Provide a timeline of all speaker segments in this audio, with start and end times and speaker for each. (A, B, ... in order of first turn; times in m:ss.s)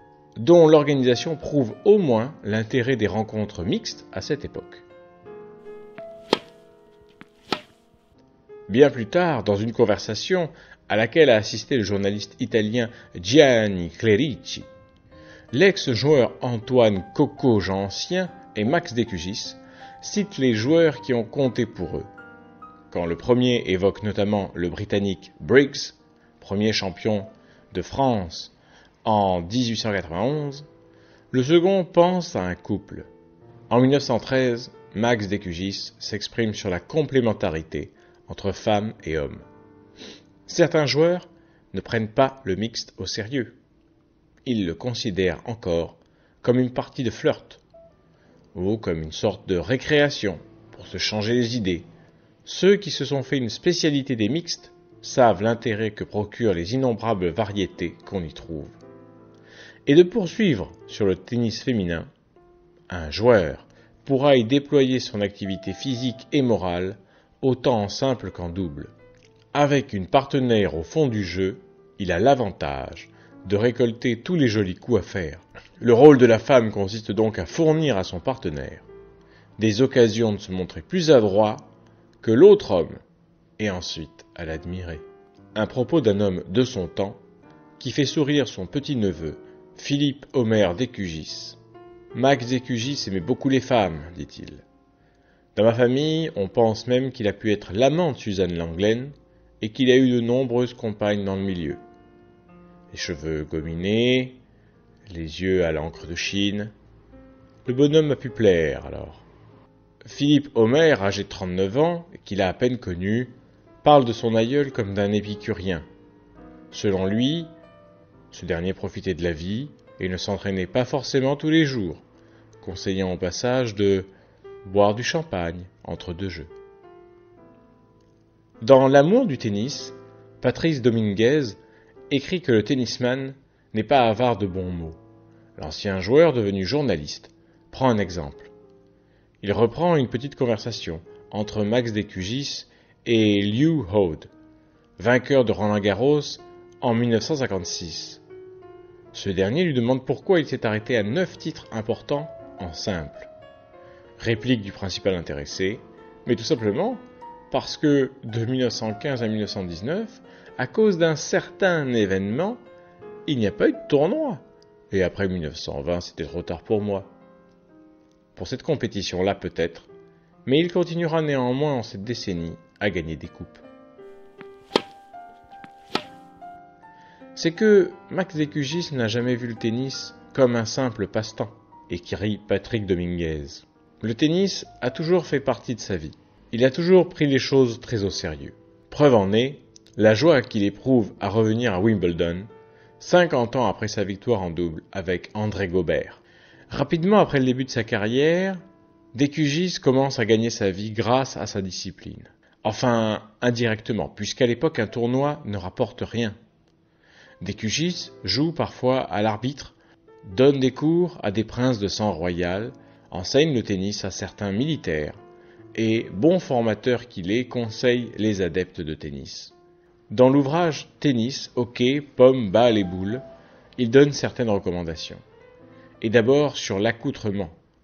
0:00.4-0:04.8 A
0:08.7-0:14.7 A
0:15.5-0:22.1 A
0:22.9-0:30.7 A
0:31.3-0:33.1 A
0:33.7-0:39.4 A
0:40.4-0:43.6 A
0:44.4-0:47.6 A
0:48.5-0:51.9 A
0:52.4-0:58.8 A
0:59.8-1:02.1 A
1:02.9-1:08.9 A
1:09.5-1:18.8 A
1:19.6-1:21.7 A
1:22.2-1:23.0 A
1:23.6-1:27.2 A
1:27.8-1:31.6 A
1:32.1-1:34.6 A
1:35.5-1:41.8 A
1:42.9-1:44.4 A
1:45.1-1:46.7 A
1:47.6-1:49.2 A
1:50.0-1:55.8 A
1:56.7-1:57.5 A
1:58.3-2:02.0 A
2:02.6-2:04.1 A
2:04.6-2:06.5 A
2:08.6-2:15.0 A
2:15.6-2:18.5 A
2:19.4-2:24.3 A
2:25.0-2:28.2 A
2:29.1-2:33.3 A
2:34.2-2:42.6 A
2:43.2-2:47.1 A
2:48.3-2:49.9 A
2:50.4-2:53.6 A
2:57.3-3:18.6 A
3:19.1-3:26.4 A
3:27.4-3:35.2 A
3:35.7-3:39.5 A
3:40.1-3:43.2 A
3:43.8-3:45.2 A
3:46.0-3:47.6 A